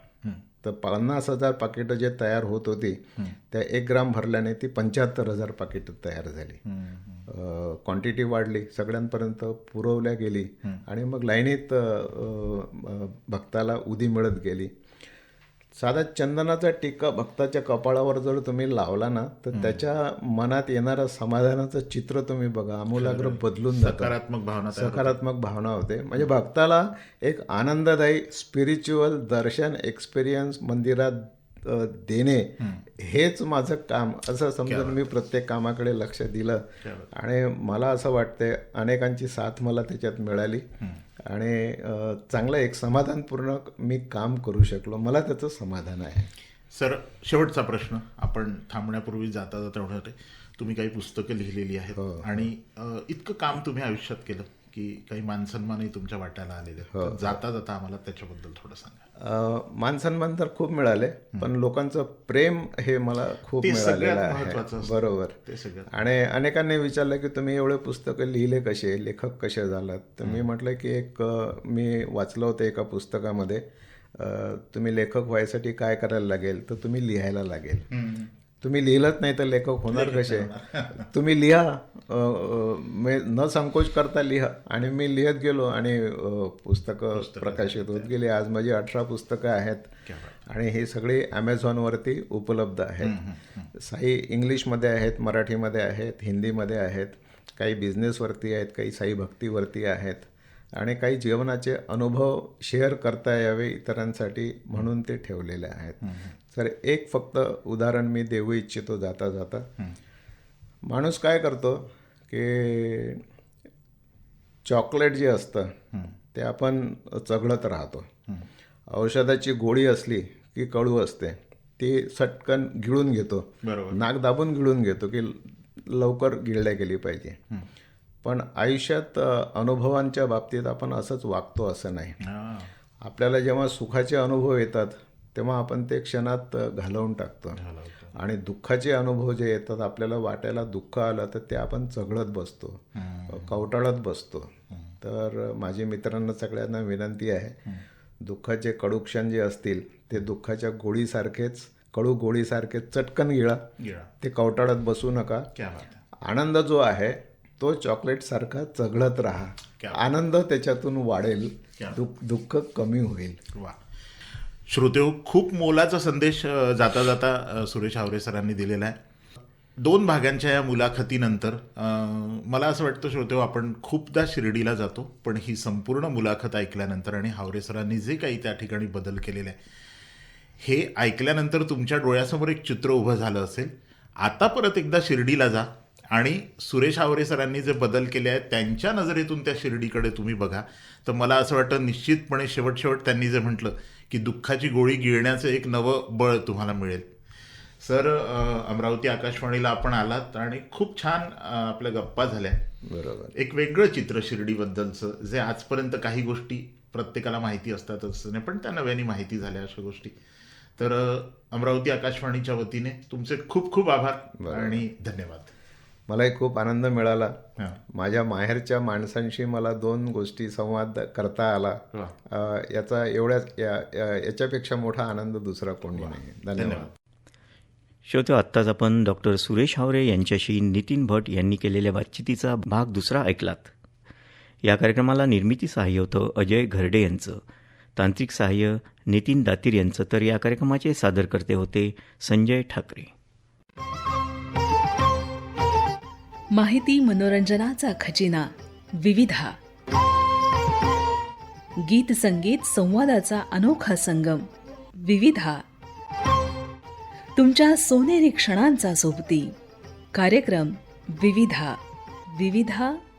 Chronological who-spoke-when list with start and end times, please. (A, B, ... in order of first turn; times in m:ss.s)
0:00.6-0:06.6 A
0:06.6-0:07.2 B
0:07.3-0:14.7 A
0:15.8-0:24.1 A
0:19.5-0:19.8 B
0:22.9-0:25.2 B
0:24.7-0:40.6 A
0:34.6-0:35.1 B
0:36.8-0:37.1 B
0:41.3-0:46.3 A
0:46.7-0:59.0 B
0:52.0-0:52.4 A
0:56.9-0:57.4 A
0:59.2-1:05.4 A
1:03.6-1:05.9 B
1:05.9-1:13.6 A
1:14.1-1:17.9 A
1:17.9-1:18.3 B
1:18.6-1:29.9 A
1:19.9-1:21.0 B
1:27.1-1:28.1 B
1:30.1-1:30.4 B
1:30.4-1:33.2 A
1:33.0-1:33.7 B
1:33.7-1:49.6 A
1:46.0-1:46.3 B
1:50.9-1:53.2 A
1:54.6-1:55.7 A
1:56.3-1:58.1 A
1:58.9-2:07.4 A
2:03.6-2:04.0 B
2:08.2-2:12.2 A
2:12.2-2:12.7 B
2:13.0-2:17.6 A
2:17.6-2:18.1 B
2:18.1-2:27.6 A
2:23.0-2:23.6 B
2:28.2-2:33.6 A
2:33.8-2:34.1 B
2:34.2-2:35.5 A
2:35.6-2:36.0 B
2:36.2-2:43.4 A
2:44.7-2:49.0 B
2:49.8-2:59.6 B
3:00.6-3:17.1 B
3:17.8-3:22.6 B
3:22.8-3:23.3 A
3:23.3-3:30.1 B
3:30.8-3:35.5 B
3:34.4-3:34.8 A
3:36.1-3:37.4 A
3:37.9-3:46.9 A
3:46.0-3:46.9 B
3:48.0-3:53.7 C
3:54.6-3:57.4 C
3:58.0-4:03.1 C
4:06.5-4:09.5 D
4:11.8-4:14.5 D
4:15.0-4:15.6 D
4:17.4-4:19.5 D
4:20.1-4:21.8 D
4:22.3-4:23.0 D